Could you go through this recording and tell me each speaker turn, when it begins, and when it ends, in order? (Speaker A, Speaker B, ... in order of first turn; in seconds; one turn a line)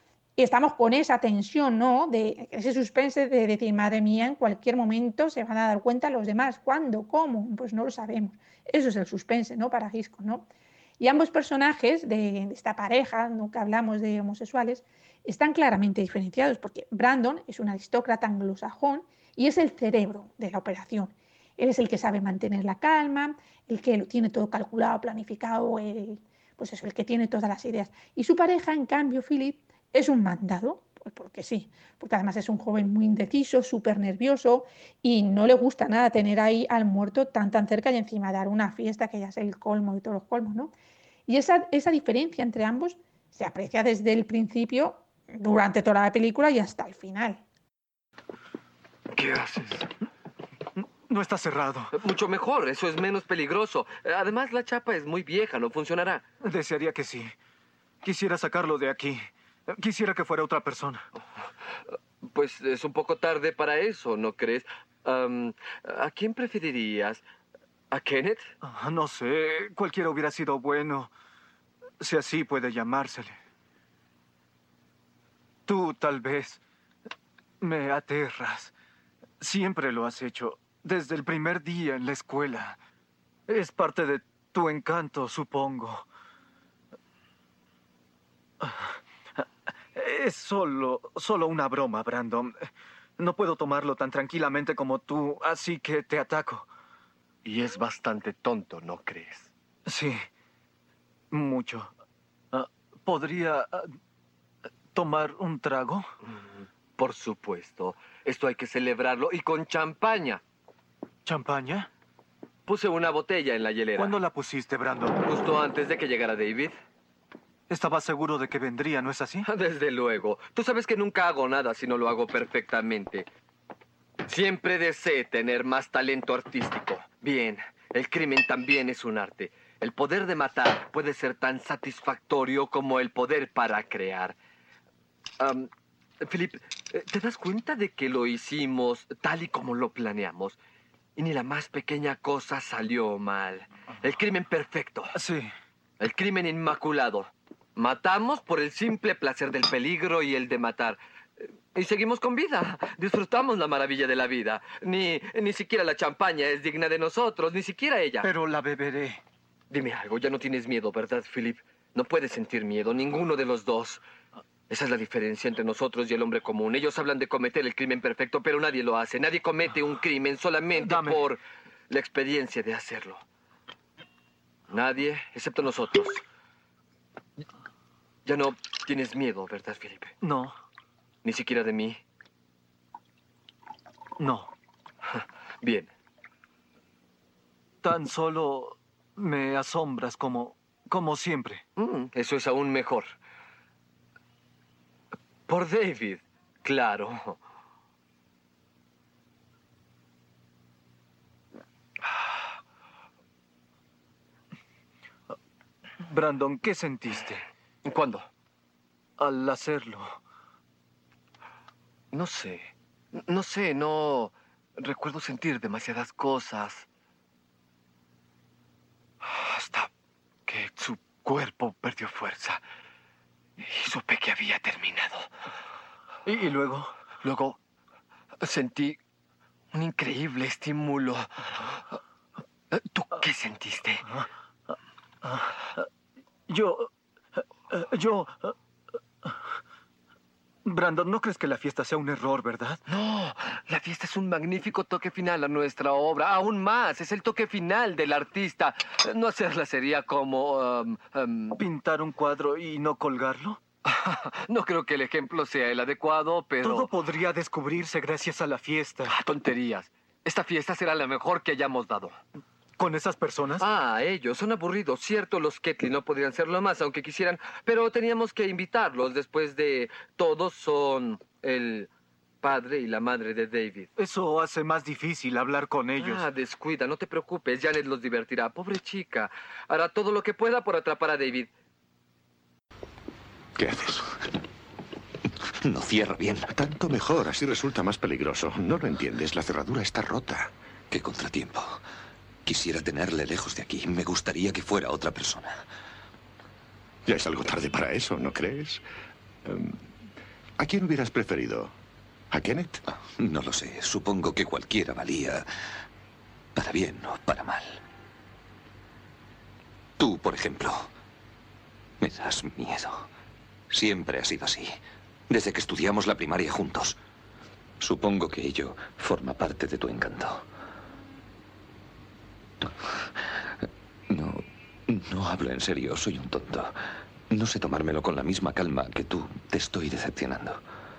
Speaker A: 0.4-10.5
Speaker A: 11.0-40.7
Speaker A: 41.3-47.4
Speaker B: 49.1-49.9
Speaker C: 51.1-51.9
Speaker B: 51.9-56.2
Speaker C: 56.4-57.3
Speaker C: 58.0-61.0
Speaker B: 62.2-67.2
Speaker B: 67.9-68.5
Speaker C: 68.6-71.1
Speaker C: 72.0-73.3
Speaker C: 75.7-76.6
Speaker C: 77.6-78.7
Speaker C: 79.4-82.8
Speaker C: 83.5-86.0
Speaker C: 88.6-96.7
Speaker B: 97.4-99.5
Speaker C: 99.8-100.2
Speaker C: 101.3-101.9
Speaker C: 102.5-103.9
Speaker C: 104.9-106.1
Speaker B: 107.0-110.4
Speaker C: 111.2-111.9
Speaker B: 112.7-114.2
Speaker C: 114.0-115.2
Speaker B: 115.2-116.8
Speaker C: 117.7-119.5
Speaker B: 119.4-123.3
Speaker B: 124.3-134.3
Speaker B: 135.4-135.7
Speaker B: 136.2-140.6
Speaker B: 141.2-145.2
Speaker C: 145.1-145.5
Speaker B: 146.0-151.0
Speaker B: 151.7-158.3
Speaker C: 158.2-159.2
Speaker B: 159.7-164.0
Speaker B: 164.7-173.2
Speaker C: 170.8-171.3
Speaker B: 174.7-176.2
Speaker B: 178.2-180.1
Speaker C: 180.2-180.5
Speaker B: 181.2-182.0
Speaker C: 184.2-184.5
Speaker B: 185.1-185.9
Speaker C: 187.8-191.6
Speaker B: 191.8-193.1
Speaker B: 195.5-197.4
Speaker C: 206.0-207.4
Speaker B: 207.8-208.3
Speaker C: 209.2-210.2
Speaker B: 212.1-216.8
Speaker B: 219.2-219.9
Speaker B: 220.5-222.6
Speaker B: 223.6-225.3
Speaker C: 226.2-226.9
Speaker B: 227.2-227.6
Speaker B: 228.4-229.0
Speaker B: 229.7-231.8
Speaker B: 232.7-234.1
Speaker C: 235.2-235.8
Speaker C: 236.5-236.9
Speaker C: 237.7-238.5
Speaker C: 240.6-242.8
Speaker B: 242.9-251.6
Speaker C: 251.6-253.6
Speaker B: 253.8-256.9
Speaker C: 256.6-259.1
Speaker B: 259.0-262.2
Speaker C: 262.8-263.6
Speaker B: 263.6-271.9
Speaker B: 272.4-273.9
Speaker C: 274.0-276.3
Speaker B: 276.0-281.5
Speaker D: 283.6-284.1
Speaker E: 285.6-286.5
Speaker D: 286.5-290.5
Speaker E: 290.9-291.8
Speaker E: 292.4-295.6
Speaker D: 297.0-298.8
Speaker D: 299.4-299.9
Speaker D: 300.6-301.7
Speaker D: 302.3-302.8
Speaker E: 303.2-305.4
Speaker E: 306.5-307.8
Speaker E: 310.0-310.9
Speaker E: 312.0-313.1
Speaker E: 313.7-317.0
Speaker E: 317.8-320.4
Speaker E: 324.1-326.7
Speaker E: 327.3-330.6